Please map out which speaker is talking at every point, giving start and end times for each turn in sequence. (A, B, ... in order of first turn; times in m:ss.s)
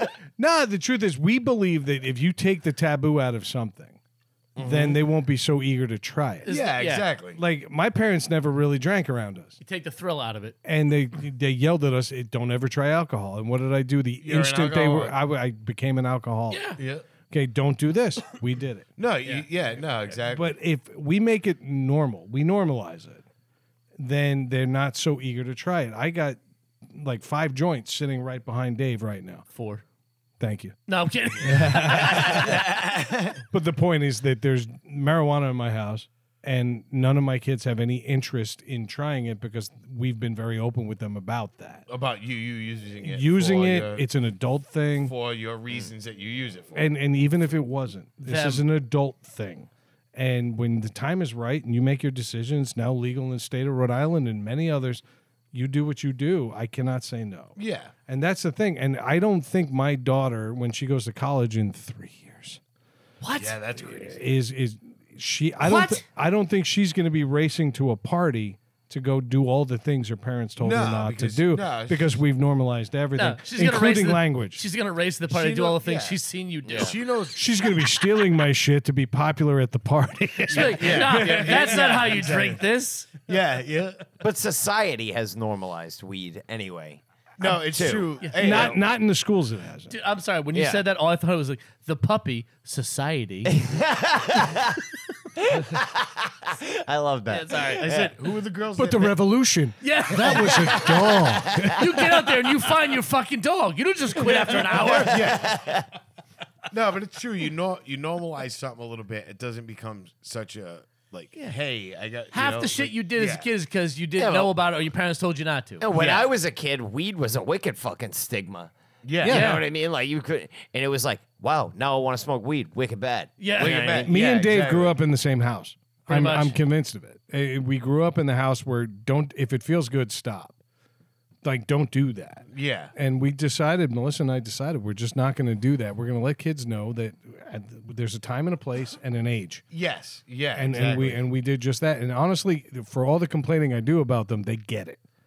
0:00.4-0:04.0 A
0:04.6-0:05.0 B
0:04.6-0:06.5 A
0:06.4-0:07.1 C
0:06.5-0:07.4 B
0:07.4-0:09.6 A
0:09.6-0:10.6 C
0:10.6-0:16.8 A
0:14.2-0:15.2 B
0:16.5-0:16.8 C
0:16.8-0:17.0 B
0:17.3-0:18.9 A
0:19.0-0:20.5 B
0:20.3-0:23.2 A
0:24.0-0:26.4 A
0:26.9-0:29.4 A
0:29.5-0:29.8 C
0:30.4-0:30.8 A
0:30.9-0:32.6 C
0:31.4-0:32.7 A
0:32.0-0:33.4 B
0:33.5-0:41.8 A
0:41.9-0:44.1 B
0:43.0-0:45.1 A
0:45.0-0:46.9 B
0:46.7-0:57.6 A
0:48.2-0:48.7 C
0:57.6-0:57.9 B
0:58.1-1:02.6 A
1:03.2-1:03.6 C
1:03.4-1:04.2 B
1:03.8-1:14.6 A
1:05.6-1:06.0 C
1:10.6-1:12.2 B
1:13.2-1:17.0 C
1:15.3-1:17.7 B
1:16.6-1:16.9 D
1:17.4-1:21.9 A
1:20.5-1:22.6 B
1:20.5-1:23.2 C
1:23.2-1:24.1 B
1:24.2-1:28.1 D
1:27.4-1:28.8 B
1:28.4-1:29.9 A
1:29.9-1:33.5 C
1:30.5-1:30.8 D
1:33.5-1:34.8 D
1:35.4-1:38.1 D
1:37.3-1:38.1 C
1:37.7-1:39.2 B
1:38.8-1:42.4 A
1:39.8-1:41.0 C
1:40.3-1:41.8 D
1:41.6-1:45.3 C
1:44.3-1:45.9 D
1:44.9-1:45.6 B
1:46.7-1:53.5 B
1:52.3-1:55.9 C
1:54.2-1:54.5 D
1:55.8-1:58.7 D
1:55.9-1:56.3 B
1:59.0-1:59.5 B
1:59.2-1:59.6 A
1:59.3-2:04.1 D
1:59.3-1:59.6 C
2:03.4-2:03.9 C
2:03.6-2:05.0 B
2:04.0-2:10.6 A
2:06.1-2:06.6 C
2:11.4-2:19.6 A
2:12.5-2:12.9 B
2:19.7-2:21.2 B
2:20.6-2:25.0 A